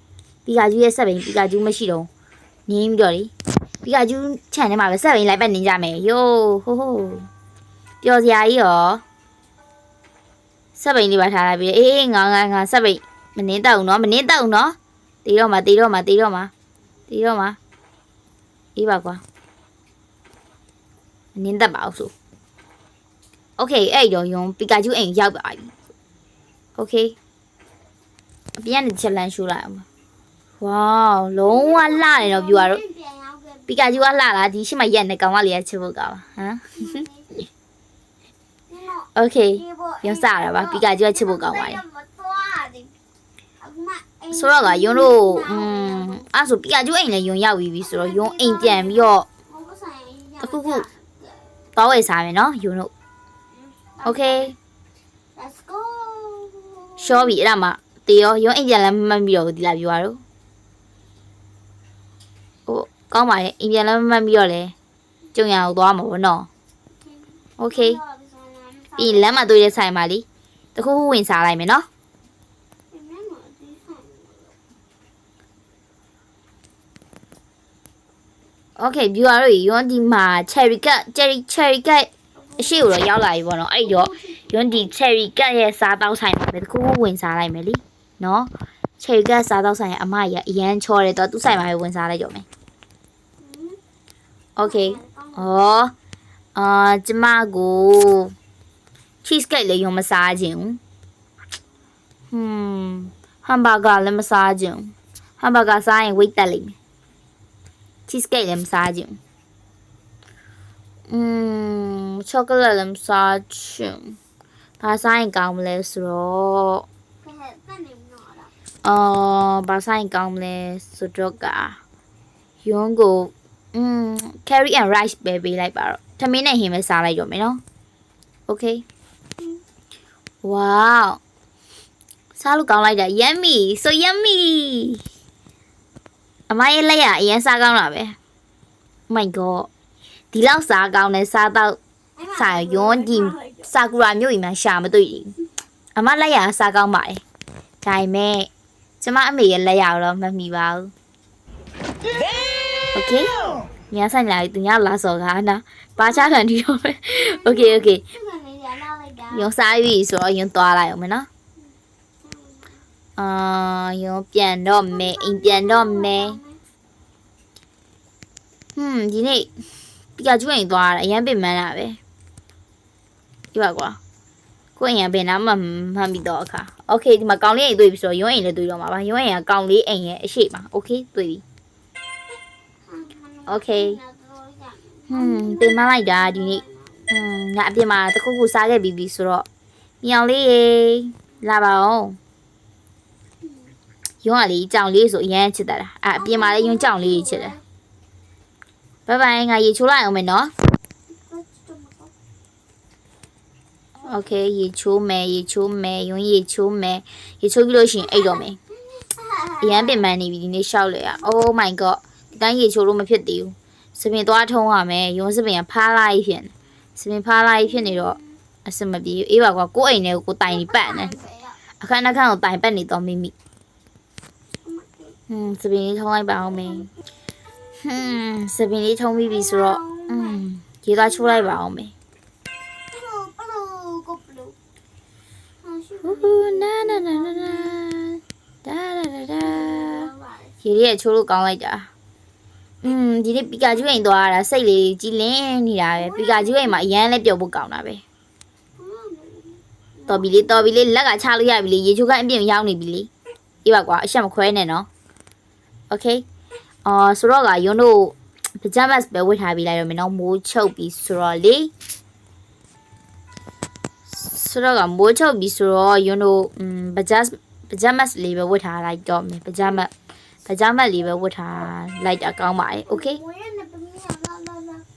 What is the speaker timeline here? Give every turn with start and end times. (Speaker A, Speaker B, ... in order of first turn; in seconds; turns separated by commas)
Speaker A: 0.5-2.1, Speaker A: 2.7-7.3, Speaker A: 8.0-9.0, Speaker A: 10.8-16.5, Speaker A: 17.1-17.6, Speaker A: 18.8-19.2, Speaker A: 21.3-22.1, Speaker A: 23.6-25.7, Speaker A: 26.8-27.1, Speaker A: 28.6-29.8, Speaker A: 30.6-32.8, Speaker B: 31.4-33.9, Speaker A: 33.7-37.0, Speaker B: 36.7-37.5, Speaker B: 38.7-42.9, Speaker A: 39.1-41.8, Speaker B: 43.6-46.2, Speaker A: 44.3-49.2, Speaker B: 47.8-51.5, Speaker A: 50.4-50.9, Speaker A: 51.7-52.9, Speaker B: 53.5-54.5, Speaker A: 54.0-54.5, Speaker B: 55.3-57.4, Speaker A: 57.0-60.2, Speaker A: 62.7-64.7, Speaker A: 65.3-66.5, Speaker B: 67.0-69.6, Speaker A: 67.6-68.0, Speaker A: 69.0-70.2, Speaker A: 70.8-71.9, Speaker B: 72.9-74.6, Speaker A: 78.8-92.4, Speaker B: 82.3-82.9, Speaker B: 83.8-84.7, Speaker B: 93.4-93.8, Speaker A: 94.6-95.9, Speaker B: 94.6-95.5, Speaker A: 96.5-98.3, Speaker A: 99.2-100.8, Speaker A: 102.3-106.7, Speaker A: 108.1-109.2, Speaker A: 111.1-114.2, Speaker A: 114.8-116.8, Speaker B: 117.2-118.5, Speaker A: 118.8-121.8, Speaker A: 122.6-127.6, Speaker A: 128.5-128.8, Speaker A: 130.4-131.2, Speaker A: 132.4-135.0, Speaker A: 136.5-138.2, Speaker A: 139.1-139.7, Speaker A: 140.3-141.8, Speaker B: 142.2-143.7, Speaker A: 142.3-145.3, Speaker A: 145.9-147.2, Speaker A: 147.8-148.5, Speaker A: 149.0-150.9, Speaker A: 152.9-153.3, Speaker A: 153.9-158.0, Speaker B: 157.1-159.5, Speaker A: 159.3-161.3, Speaker B: 162.2-162.7, Speaker A: 163.2-166.4, Speaker B: 164.9-166.6, Speaker A: 168.8-169.6, Speaker A: 170.2-172.0, Speaker A: 173.5-174.0, Speaker A: 174.8-181.4, Speaker B: 182.8-187.2, Speaker A: 183.5-184.0, Speaker A: 185.1-189.4, Speaker A: 190.0-192.2, Speaker B: 193.4-193.7, Speaker A: 194.2-197.6, Speaker B: 196.1-197.6, Speaker A: 199.1-200.5, Speaker B: 201.1-202.1, Speaker A: 204.0-208.6, Speaker B: 208.3-210.0, Speaker A: 209.6-221.1, Speaker B: 217.9-218.2, Speaker B: 220.5-221.6, Speaker A: 221.8-223.3, Speaker B: 224.6-225.2, Speaker A: 225.3-226.9, Speaker A: 227.8-231.9, Speaker B: 229.2-230.4, Speaker B: 231.0-231.5, Speaker B: 232.9-234.6, Speaker B: 235.6-237.8, Speaker A: 236.0-240.1, Speaker B: 239.4-240.5, Speaker A: 240.6-241.9, Speaker A: 242.8-248.0, Speaker B: 245.9-246.8, Speaker B: 248.8-250.8, Speaker A: 250.1-253.1, Speaker A: 253.6-254.9, Speaker A: 255.9-256.2, Speaker A: 256.8-261.7, Speaker A: 264.1-269.9, Speaker A: 270.4-273.2, Speaker B: 272.9-274.8